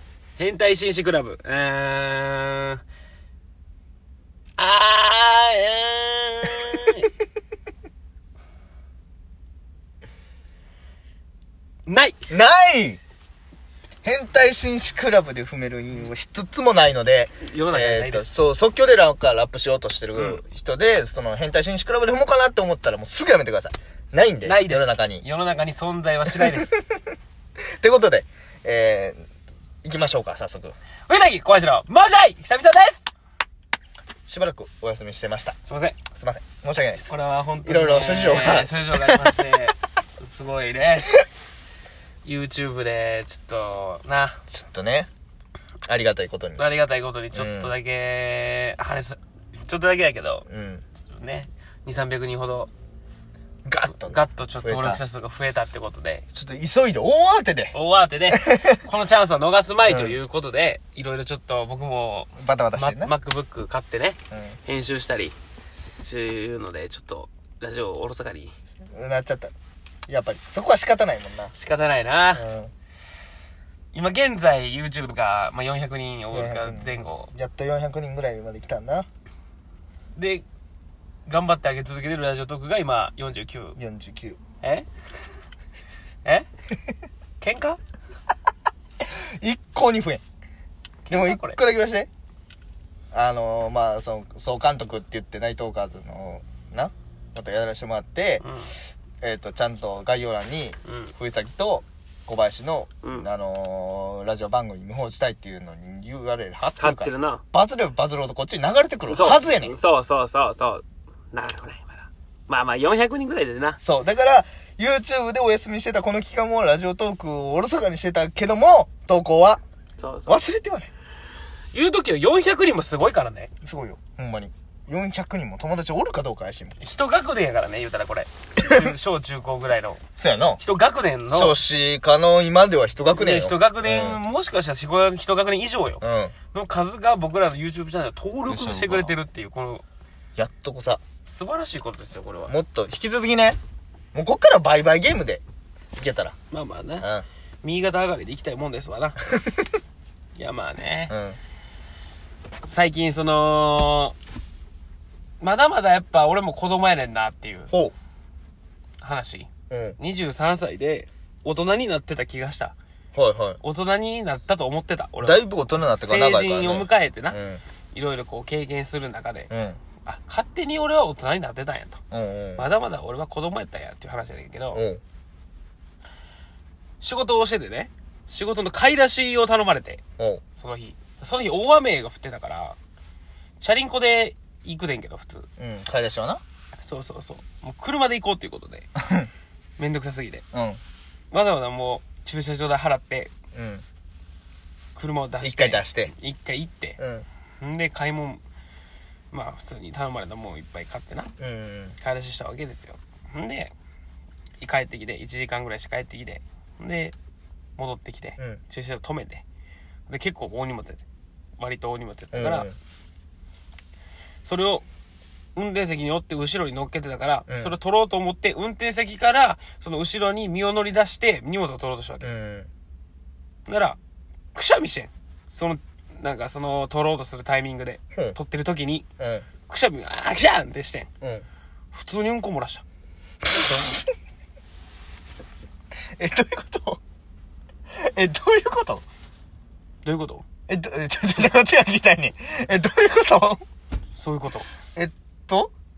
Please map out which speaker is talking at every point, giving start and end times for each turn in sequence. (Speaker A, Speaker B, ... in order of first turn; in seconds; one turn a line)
Speaker A: 0.4-2.8
Speaker A: 4.6-7.1
Speaker A: 11.8-12.2
Speaker B: 12.3-13.0
Speaker B: 14.0-25.2
Speaker A: 17.4-18.5
Speaker A: 24.4-26.7
Speaker B: 26.6-26.8
Speaker B: 27.8-29.2
Speaker B: 29.8-30.8
Speaker A: 31.1-33.1
Speaker B: 34.2-35.5
Speaker A: 35.7-36.0
Speaker B: 36.1-37.1
Speaker A: 37.0-41.1
Speaker B: 37.6-39.4
Speaker A: 42.2-44.4
Speaker B: 44.5-45.1
Speaker B: 45.9-46.6
Speaker A: 46.5-50.5
Speaker B: 47.3-47.7
Speaker B: 50.5-50.8
Speaker A: 51.1-52.7
Speaker B: 53.7-55.0
Speaker A: 53.9-56.2
Speaker B: 56.3-57.7
Speaker A: 57.7-65.3
Speaker B: 58.3-58.8
Speaker B: 59.9-60.2
Speaker B: 62.4-63.1
Speaker A: 66.0-68.5
Speaker B: 68.9-69.5
Speaker B: 70.1-71.5
Speaker A: 71.5-72.5
Speaker B: 72.3-72.7
Speaker A: 73.9-77.3
Speaker B: 76.3-79.1
Speaker A: 80.2-80.4
Speaker A: 81.3-83.8
Speaker B: 83.8-84.4
Speaker A: 87.4-87.8
Speaker B: 89.2-90.2
Speaker A: 91.0-91.6
Speaker B: 91.1-92.1
Speaker B: 93.1-98.5
Speaker A: 98.4-98.7
Speaker B: 99.2-109.8
Speaker A: 100.9-101.1
Speaker A: 106.6-107.4
Speaker A: 109.1-113.8
Speaker B: 113.8-119.6
Speaker A: 120.0-120.5
Speaker B: 120.3-120.9
Speaker A: 121.7-123.5
Speaker B: 123.6-126.8
Speaker A: 126.8-130.0
Speaker B: 128.6-128.9
Speaker B: 130.2-130.6
Speaker A: 130.6-131.6
Speaker B: 131.3-134.2
Speaker A: 133.1-139.8
Speaker B: 136.0-136.3
Speaker B: 138.5-139.1
Speaker B: 140.4-141.0
Speaker A: 141.3-142.6
Speaker B: 142.5-143.6
Speaker B: 144.1-145.4
Speaker B: 146.0-146.3
Speaker A: 146.5-147.1
Speaker B: 147.0-147.2
Speaker A: 147.6-149.2
Speaker A: 150.3-151.1
Speaker B: 151.1-151.4
Speaker A: 152.6-154.1
Speaker A: 155.4-157.7
Speaker A: 159.0-162.8
Speaker B: 159.7-160.0
Speaker B: 163.1-163.6
Speaker A: 163.6-165.4
Speaker B: 165.2-167.6
Speaker A: 166.0-167.4
Speaker A: 167.9-169.5
Speaker B: 169.5-169.8
Speaker A: 170.0-172.0
Speaker B: 172.1-172.7
Speaker A: 172.6-174.8
Speaker B: 174.7-175.0
Speaker A: 177.0-180.0
Speaker B: 180.2-180.4
Speaker A: 180.6-182.8
Speaker A: 183.6-185.5
Speaker B: 185.6-186.4
Speaker A: 186.8-188.9
Speaker B: 188.9-189.3
Speaker A: 189.8-190.4
Speaker B: 190.5-190.8
Speaker A: 191.3-193.3
Speaker B: 193.5-193.8
Speaker A: 194.9-197.0
Speaker B: 195.4-196.1
Speaker B: 197.0-197.2
Speaker A: 197.6-198.4
Speaker A: 199.3-201.3
Speaker B: 201.4-201.9
Speaker A: 202.0-203.7
Speaker A: 204.6-207.1
Speaker A: 207.8-209.4
Speaker A: 210.1-211.0
Speaker A: 211.6-212.7
Speaker B: 212.3-212.8
Speaker A: 214.4-214.8
Speaker A: 215.6-222.3
Speaker B: 217.5-217.8
Speaker B: 222.2-222.7
Speaker A: 223.7-224.0
Speaker A: 224.5-229.1
Speaker B: 229.2-229.4
Speaker A: 229.7-231.1
Speaker A: 231.9-232.8
Speaker B: 236.2-237.0
Speaker B: 238.0-239.0
Speaker A: 240.0-240.4
Speaker B: 240.7-243.6
Speaker A: 244.2-244.7
Speaker B: 244.9-245.7